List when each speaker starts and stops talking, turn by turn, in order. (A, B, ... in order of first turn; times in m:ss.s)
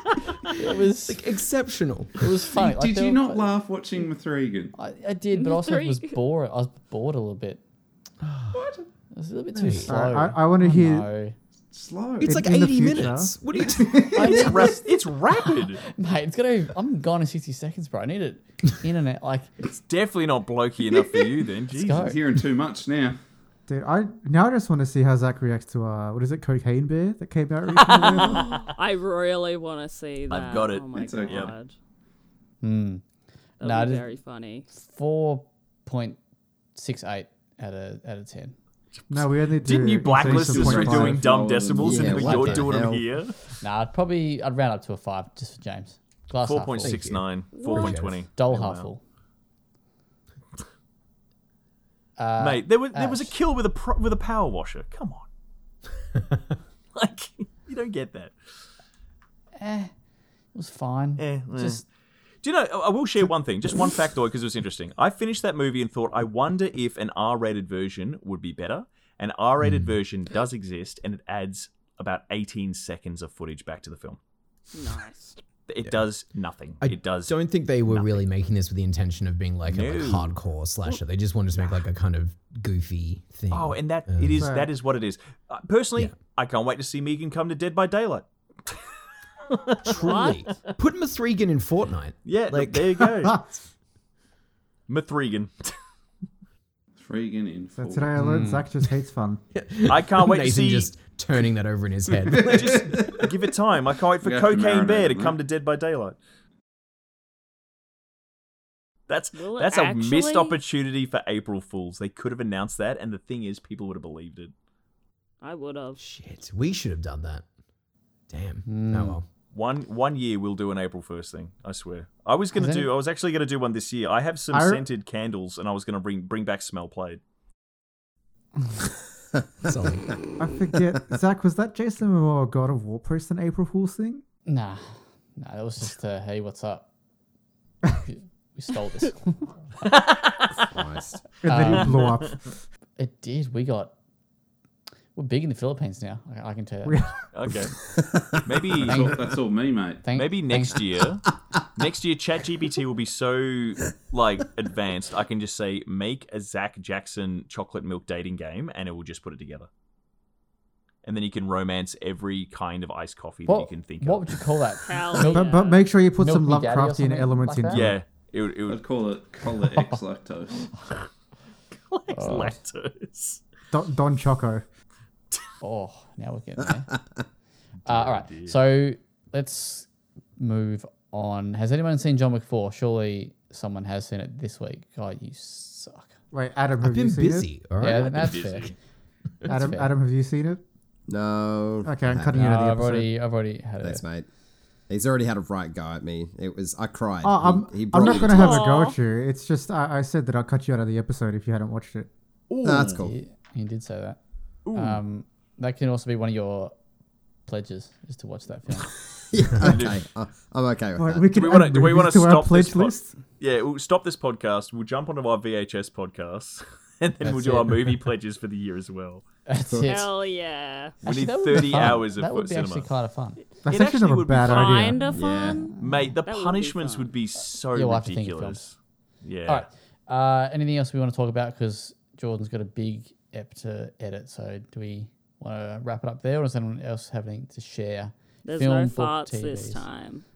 0:00.5-0:01.3 A
0:00.9-0:02.2 B
0:02.2-0:03.6 A
0:02.5-0:04.7 C
0:04.8-0:07.6 A
0:05.3-0:06.2 D
0:08.2-0:08.6 B
0:08.5-0:08.9 C
0:09.1-0:11.4 A
0:09.5-0:09.9 B
0:09.9-0:11.1 E
0:11.7-0:12.4 C
0:12.2-0:14.3 B
0:12.2-0:14.4 E
0:13.5-0:14.7 C
0:14.2-0:15.8 F
0:14.2-0:14.8 A
0:15.4-0:19.5 A
0:19.7-0:22.2 F
0:21.7-0:22.2 A
0:22.0-0:23.2 C
0:23.7-0:28.6 E
0:27.8-0:31.7 D
0:30.3-0:31.5 F
0:31.0-0:31.5 C
0:32.6-0:33.0 A
0:33.6-0:34.1 A
0:33.6-0:34.7 D
0:34.7-0:36.2 A
0:36.8-0:38.6 A
0:39.1-0:43.4 F
0:39.1-0:41.3 E
0:40.1-0:42.8 C
0:41.8-0:43.0 G
0:43.6-0:47.1 A
0:46.4-0:48.9 F
0:46.8-0:48.3 B
0:47.5-0:48.0 D
0:48.2-0:49.0 A
0:52.2-0:53.4 A
0:52.4-0:55.3 F
0:57.0-0:58.4 F
0:59.6-0:59.9 A
1:00.5-1:01.8 A
1:01.2-1:01.8 F
1:02.4-1:14.2 F
1:09.6-1:09.9 B
1:14.7-1:15.4 D
1:15.7-1:18.3 F
1:16.8-1:24.5 B
1:19.7-1:20.4 F
1:23.5-1:28.8 F
1:24.4-1:24.7 E
1:29.5-1:30.2 F
1:29.8-1:33.1 B
1:30.0-1:30.4 D
1:32.2-1:33.4 F
1:34.9-1:35.8 F
1:37.0-1:38.2 C
1:37.8-1:39.4 E
1:38.2-1:38.5 B
1:38.2-1:38.7 A
1:39.5-1:42.9 B
1:39.9-1:40.9 F
1:42.1-1:43.2 C
1:42.4-1:46.2 F
1:44.2-1:45.4 C
1:49.1-1:54.5 F
1:49.4-1:50.6 D
1:55.4-1:56.0 D
1:56.0-1:57.4 B
1:58.3-1:59.2 B
1:58.6-1:59.2 A
1:59.5-2:07.2 F
2:02.6-2:02.9 A
2:04.5-2:04.9 E
2:09.6-2:10.1 B
2:10.4-2:14.2 E
2:14.5-2:16.9 A
2:18.0-2:19.7 A
2:19.9-2:20.7 F
2:20.7-2:21.2 G
2:21.4-2:22.2 A
2:21.4-2:22.6 E
2:23.0-2:23.9 A
2:25.2-2:27.1 A
2:26.9-2:27.7 E
2:27.3-2:27.8 F
2:28.4-2:29.1 F
2:28.8-2:30.1 C
2:28.8-2:29.3 A
2:30.0-2:30.9 A
2:30.1-2:31.2 F
2:31.8-2:39.7 F
2:41.0-2:44.4 F
2:43.5-2:48.0 A
2:44.9-2:45.8 D
2:45.2-2:47.9 E
2:47.7-2:48.8 F
2:48.7-2:50.7 C
2:51.9-2:53.4 F
2:52.1-2:52.6 A
2:53.7-2:54.6 E
2:55.6-2:56.9 A
2:57.8-2:58.6 F
2:57.9-3:06.2 A
3:06.3-3:07.6 E
3:06.8-3:08.1 B
3:07.8-3:08.8 A
3:07.9-3:08.8 F
3:09.5-3:09.9 A
3:09.5-3:10.6 E
3:11.1-3:11.9 G
3:11.8-3:13.1 E
3:12.1-3:12.4 B
3:12.4-3:14.0 A
3:13.8-3:14.3 G
3:14.9-3:18.7 G
3:17.2-3:22.1 E
3:18.0-3:19.0 D
3:22.5-3:23.1 F
3:22.6-3:23.2 G
3:22.9-3:24.2 A
3:24.6-3:25.0 F
3:24.7-3:26.7 A
3:27.5-3:29.0 A
3:29.3-3:31.3 G
3:29.6-3:30.0 F
3:31.0-3:33.2 E
3:31.3-3:39.2 F
3:37.2-3:37.8 A
3:39.5-3:40.1 A
3:39.6-3:39.9 G
3:39.9-3:41.0 D
3:41.0-3:43.4 A
3:41.0-3:42.9 F
3:43.6-3:45.1 E
3:43.7-3:44.9 F
3:44.5-3:47.1 D
3:45.1-3:46.1 A
3:45.2-3:45.7 G
3:45.8-3:49.7 F
3:47.7-3:48.7 A
3:49.5-3:59.8 A
3:58.4-4:00.2 D